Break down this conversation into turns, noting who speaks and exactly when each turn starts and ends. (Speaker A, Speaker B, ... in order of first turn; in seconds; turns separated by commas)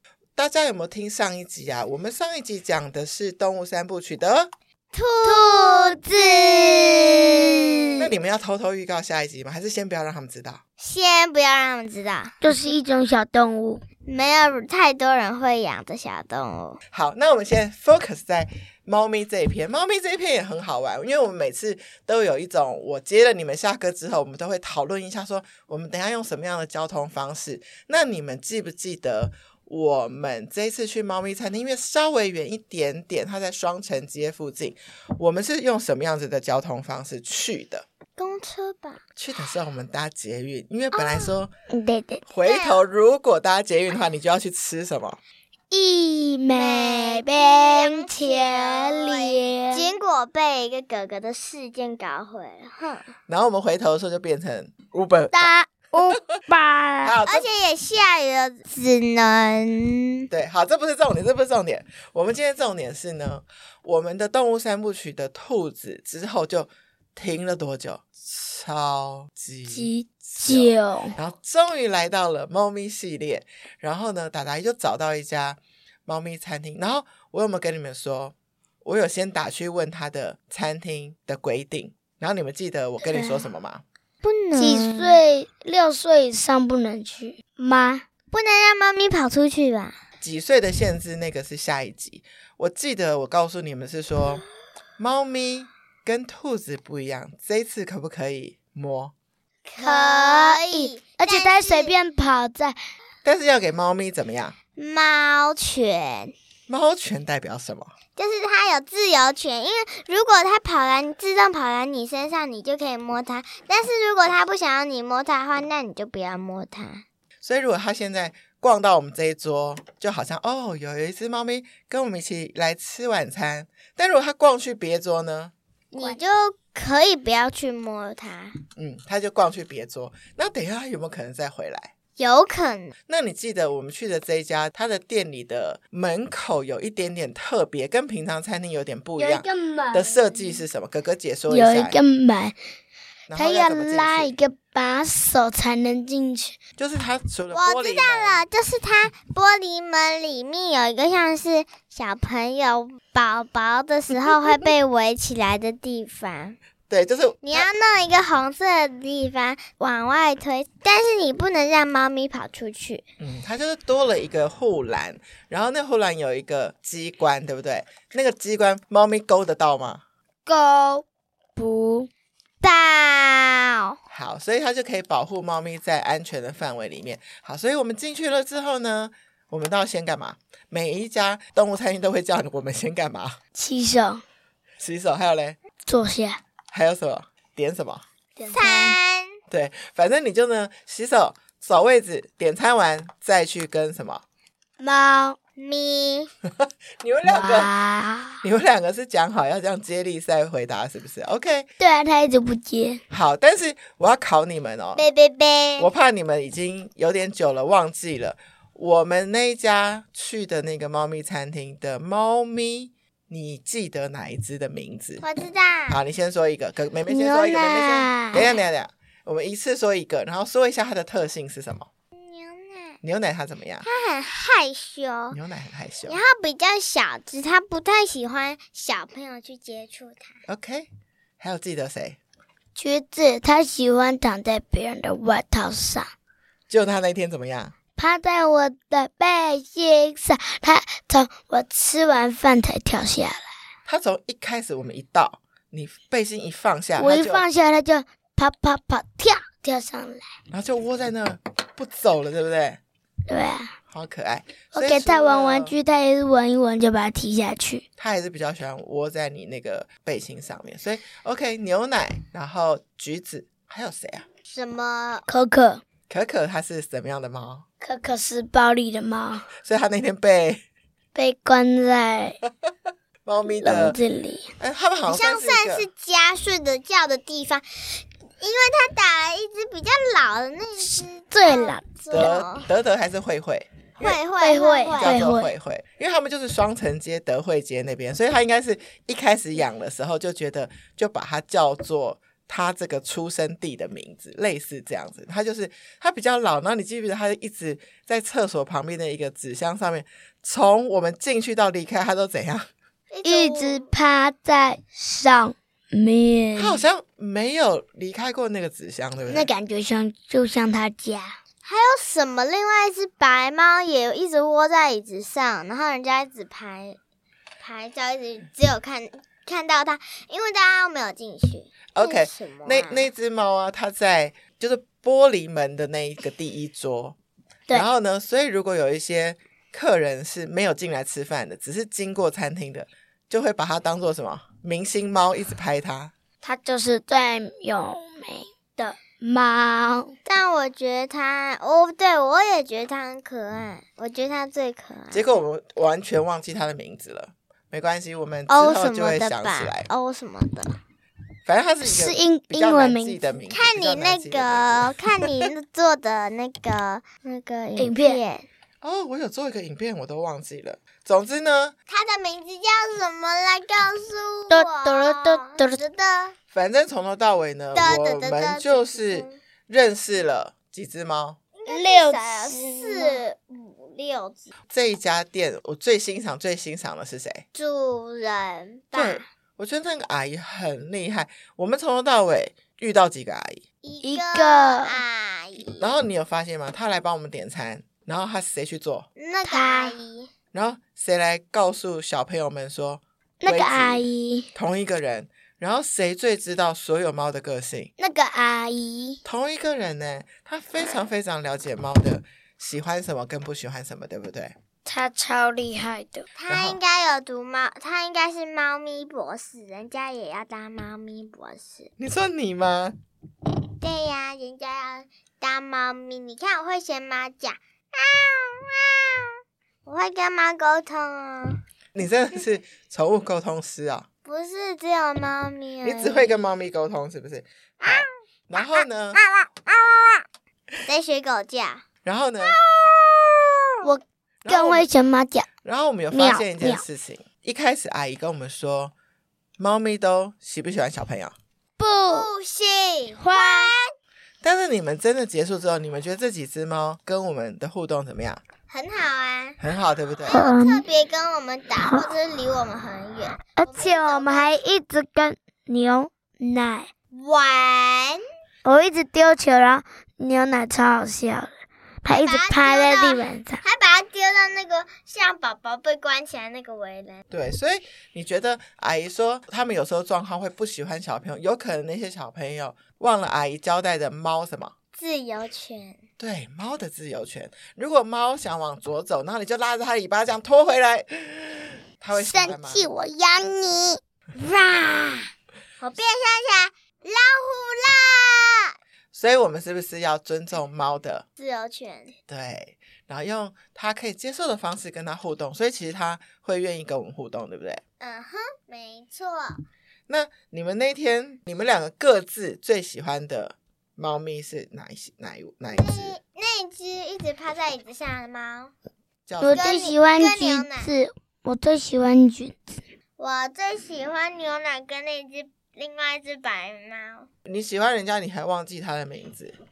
Speaker A: 0.4-4.5, Speaker B: 4.9-7.8, Speaker C: 5.2-8.1, Speaker A: 8.0-10.6, Speaker B: 10.8-12.4, Speaker C: 12.4-13.8, Speaker B: 14.0-16.8, Speaker A: 16.9-37.8, Speaker B: 38.2-39.0, Speaker A: 39.2-41.5, Speaker B: 40.9-41.4, Speaker C: 41.7-42.2, Speaker A: 42.3-45.2, Speaker B: 42.4-42.8, Speaker C: 45.7-49.9, Speaker B: 46.5-53.1, Speaker A: 53.3-55.5, Speaker C: 55.3-57.1, Speaker A: 57.0-57.5, Speaker B: 57.2-60.3, Speaker A: 60.3-83.8, Speaker C: 69.7-71.2, Speaker C: 83.1-83.5, Speaker B: 84.2-85.2, Speaker C: 84.6-88.0, Speaker B: 88.3-90.0, Speaker A: 90.2-94.4, Speaker A: 95.0-99.1, Speaker B: 99.7-101.9, Speaker C: 99.8-102.8, Speaker A: 103.2-104.5, Speaker B: 104.8-106.3, Speaker A: 106.7-107.9, Speaker B: 108.2-117.0, Speaker A: 117.4-125.5, Speaker B: 125.9-128.6, Speaker A: 128.8-131.9, Speaker B: 132.2-132.9, Speaker A: 133.1-142.0, Speaker C: 139.2-140.2, Speaker C: 141.5-142.5, Speaker A: 143.3-144.3, Speaker C: 143.3-146.6, Speaker A: 146.8-148.4, Speaker B: 147.5-156.6, Speaker A: 156.9-157.7, Speaker B: 157.4-163.0, Speaker A: 163.2-170.0, Speaker C: 170.4-171.0, Speaker C: 171.6-172.1, Speaker B: 172.6-173.9, Speaker A: 174.1-183.4, Speaker C: 183.5-184.2, Speaker A: 184.8-185.6, Speaker C: 185.8-186.4, Speaker A: 186.7-188.0, Speaker C: 188.4-189.0, Speaker B: 188.5-189.4, Speaker A: 189.5-194.2, Speaker C: 194.8-195.3, Speaker B: 195.6-196.3, Speaker A: 196.5-197.8, Speaker C: 197.2-198.4, Speaker A: 198.4-201.7, Speaker C: 201.8-203.0, Speaker A: 203.1-205.0, Speaker B: 204.9-205.9, Speaker A: 205.8-215.2, Speaker B: 215.2-216.0, Speaker A: 215.9-221.9, Speaker C: 217.1-218.5, Speaker B: 222.2-223.0, Speaker A: 223.0-223.8, Speaker B: 223.8-225.4, Speaker A: 225.3-226.2, Speaker B: 226.1-230.4, Speaker A: 230.5-232.2, Speaker C: 232.8-236.1, Speaker A: 236.7-237.8, Speaker C: 238.0-243.5, Speaker A: 243.8-247.5, Speaker C: 247.0-250.2, Speaker A: 250.5-252.8, Speaker C: 253.3-253.7, Speaker A: 253.9-255.8, Speaker C: 254.7-257.8, Speaker A: 258.0-264.2, Speaker B: 264.5-265.2, Speaker C: 265.3-265.8, Speaker A: 266.1-267.7, Speaker C: 267.8-269.5, Speaker A: 269.6-270.6, Speaker C: 271.1-272.4, Speaker A: 273.2-274.0, Speaker C: 273.6-274.5, Speaker A: 274.6-275.9, Speaker B: 275.1-282.7, Speaker C: 280.8-282.3, Speaker A: 282.1-284.2, Speaker B: 284.0-285.2, Speaker C: 284.4-285.5, Speaker A: 285.0-302.7, Speaker B: 303.1-303.9, Speaker C: 303.2-306.8, Speaker A: 306.6-309.5, Speaker C: 309.2-311.4, Speaker B: 311.6-317.0, Speaker B: 317.6-323.1, Speaker A: 321.9-327.2, Speaker A: 327.7-336.1, Speaker C: 336.4-340.1, Speaker B: 340.2-345.3, Speaker A: 345.1-349.9, Speaker B: 348.5-350.8, Speaker A: 351.4-355.0, Speaker C: 351.8-353.2, Speaker B: 353.5-358.5, Speaker C: 357.8-358.2, Speaker A: 358.8-361.8, Speaker B: 361.9-366.4, Speaker C: 364.5-365.8, Speaker A: 366.5-371.4, Speaker B: 367.7-369.4, Speaker B: 371.6-374.5, Speaker C: 371.7-373.2, Speaker A: 374.7-377.4, Speaker B: 377.5-379.2, Speaker A: 378.9-383.6, Speaker B: 383.8-386.0, Speaker C: 384.0-385.0, Speaker A: 385.8-389.1, Speaker B: 389.2-390.3, Speaker C: 389.5-389.9, Speaker A: 390.5-397.9, Speaker C: 393.4-394.5, Speaker C: 398.0-399.2, Speaker A: 399.2-404.5, Speaker C: 404.9-406.2, Speaker B: 406.4-411.9, Speaker A: 406.5-406.8, Speaker A: 412.0-413.0, Speaker B: 413.8-419.3, Speaker B: 419.9-421.6, Speaker A: 421.9-424.1, Speaker B: 424.2-426.4, Speaker A: 425.8-429.2, Speaker B: 427.8-430.2, Speaker B: 430.9-431.8, Speaker A: 432.0-432.6, Speaker B: 432.4-433.9, Speaker C: 433.8-435.5, Speaker A: 434.4-434.9, Speaker A: 435.6-438.9, Speaker C: 436.1-436.8, Speaker A: 439.6-441.3, Speaker C: 441.8-442.3, Speaker B: 442.1-443.8, Speaker C: 443.1-443.8, Speaker A: 444.4-448.4, Speaker B: 448.7-449.6, Speaker A: 449.6-450.4, Speaker B: 450.2-454.6, Speaker C: 450.3-450.8, Speaker C: 451.8-452.1, Speaker C: 453.6-456.9, Speaker B: 457.1-458.2, Speaker C: 458.6-461.5, Speaker C: 462.1-463.6, Speaker B: 462.1-467.2, Speaker A: 467.3-474.7, Speaker B: 475.0-476.0, Speaker A: 476.2-482.9, Speaker C: 482.1-483.9, Speaker B: 483.8-485.2, Speaker B: 485.8-488.7, Speaker A: 489.1-491.2, Speaker B: 491.4-492.2, Speaker A: 492.3-497.8, Speaker B: 498.0-499.6, Speaker A: 500.1-506.2, Speaker B: 505.7-508.7, Speaker A: 509.3-509.7, Speaker C: 509.4-512.7, Speaker B: 509.5-510.9, Speaker B: 513.2-517.3, Speaker A: 517.4-519.5